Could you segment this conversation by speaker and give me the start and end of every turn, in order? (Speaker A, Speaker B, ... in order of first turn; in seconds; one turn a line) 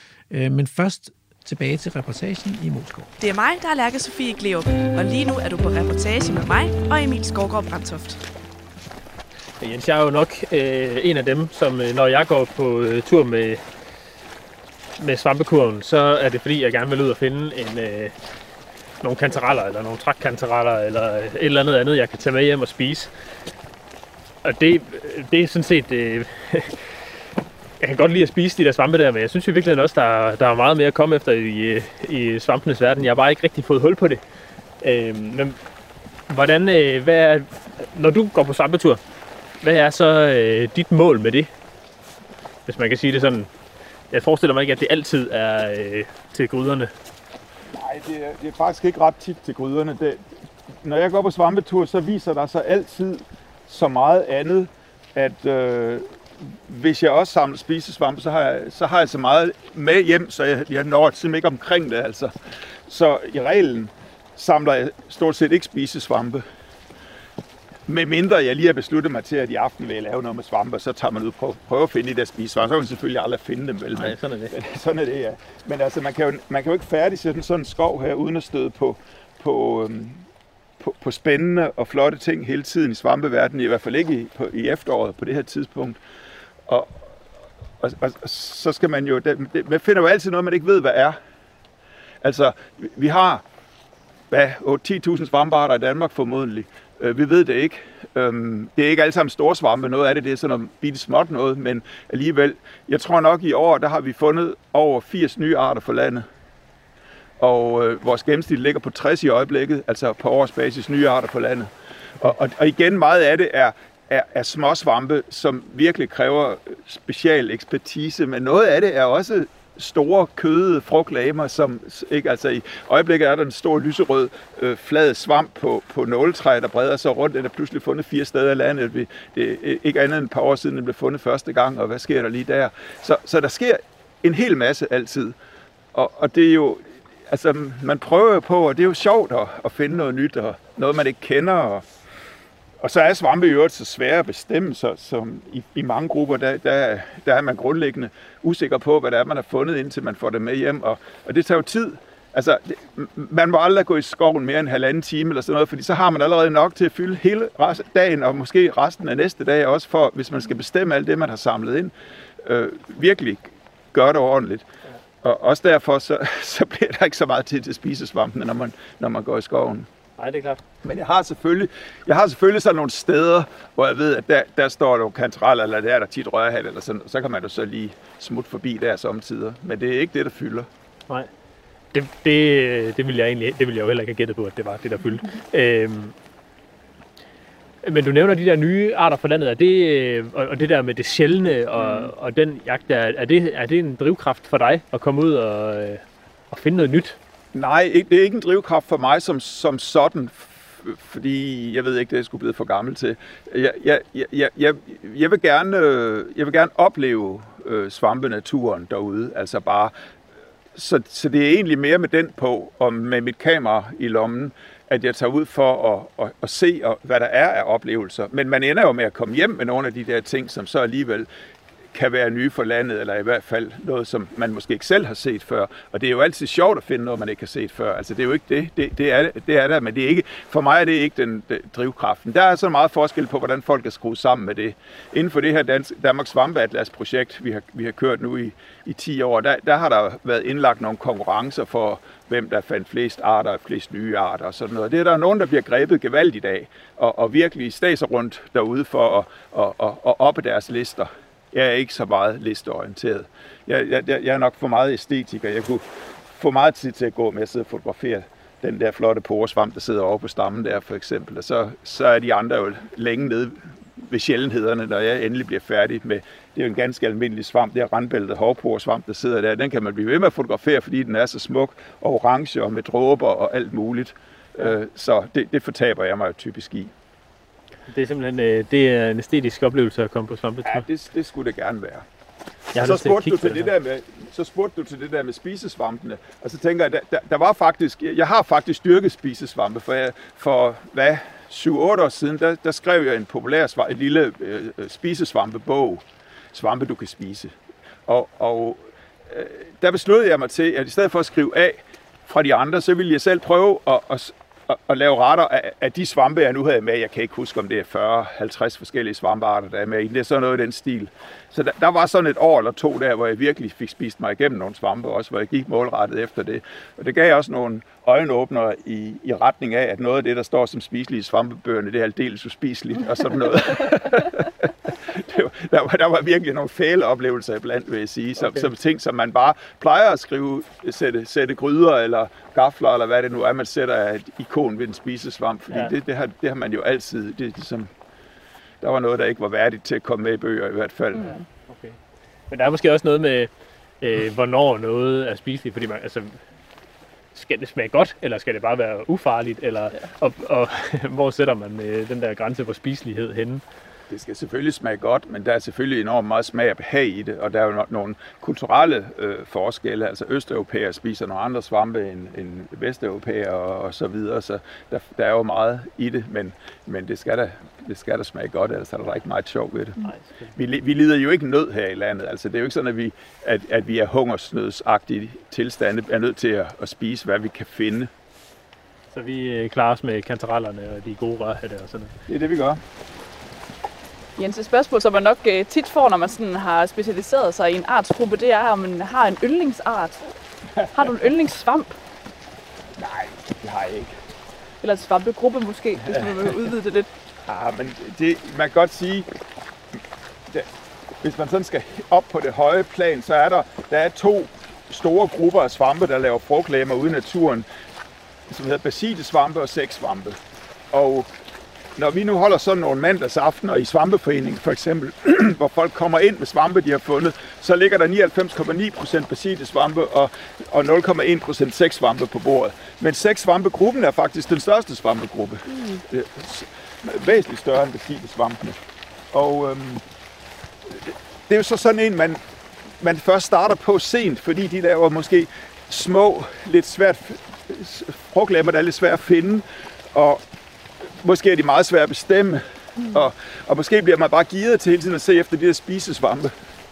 Speaker A: 0.3-3.1
Speaker B: 3.2-8.2
Speaker C: 9.6-13.6
Speaker C: 15.0-18.1
Speaker C: 19.0-23.1
Speaker C: 24.4-26.8
Speaker C: 27.8-34.2
Speaker C: 34.8-35.6
Speaker C: 36.3-39.0
Speaker C: 39.6-41.5
Speaker C: 42.6-43.5
Speaker C: 44.1-46.9
Speaker D: 47.7-50.3
Speaker D: 50.8-62.3
Speaker D: 62.9-66.4
Speaker D: 67.9-80.2
Speaker C: 74.0-74.5
Speaker D: 80.8-86.0
Speaker D: 86.7-87.1
Speaker D: 87.8-91.2
Speaker D: 92.2-93.4
Speaker D: 94.3-106.2
Speaker D: 107.4-135.3
Speaker D: 135.9-141.8
Speaker D: 142.8-164.7
Speaker D: 165.2-169.9
Speaker C: 170.2-170.6
Speaker D: 170.8-180.7
Speaker C: 181.9-186.1
Speaker C: 187.8-197.2
Speaker D: 197.5-209.9
Speaker D: 210.7-221.3
Speaker D: 221.9-276.9
Speaker C: 277.9-280.8
Speaker D: 280.6-282.1
Speaker C: 282.7-283.7
Speaker D: 282.7-297.5
Speaker D: 298.1-337.9
Speaker D: 338.8-341.4
Speaker C: 341.7-341.9
Speaker C: 342.5-343.5
Speaker C: 344.0-346.3
Speaker C: 347.3-353.6
Speaker D: 354.1-369.9
Speaker C: 370.0-370.5
Speaker D: 370.6-378.1
Speaker C: 379.1-382.1
Speaker D: 382.3-382.8
Speaker E: 384.4-390.2
Speaker E: 390.9-391.9
Speaker D: 393.0-394.1
Speaker E: 394.8-397.1
Speaker D: 396.1-396.5
Speaker D: 397.4-399.3
Speaker D: 401.2-407.7
Speaker D: 408.5-410.4
Speaker D: 410.9-411.3
Speaker D: 411.9-428.8
Speaker D: 429.3-430.0
Speaker D: 430.9-432.4
Speaker D: 433.0-440.4
Speaker D: 441.0-446.5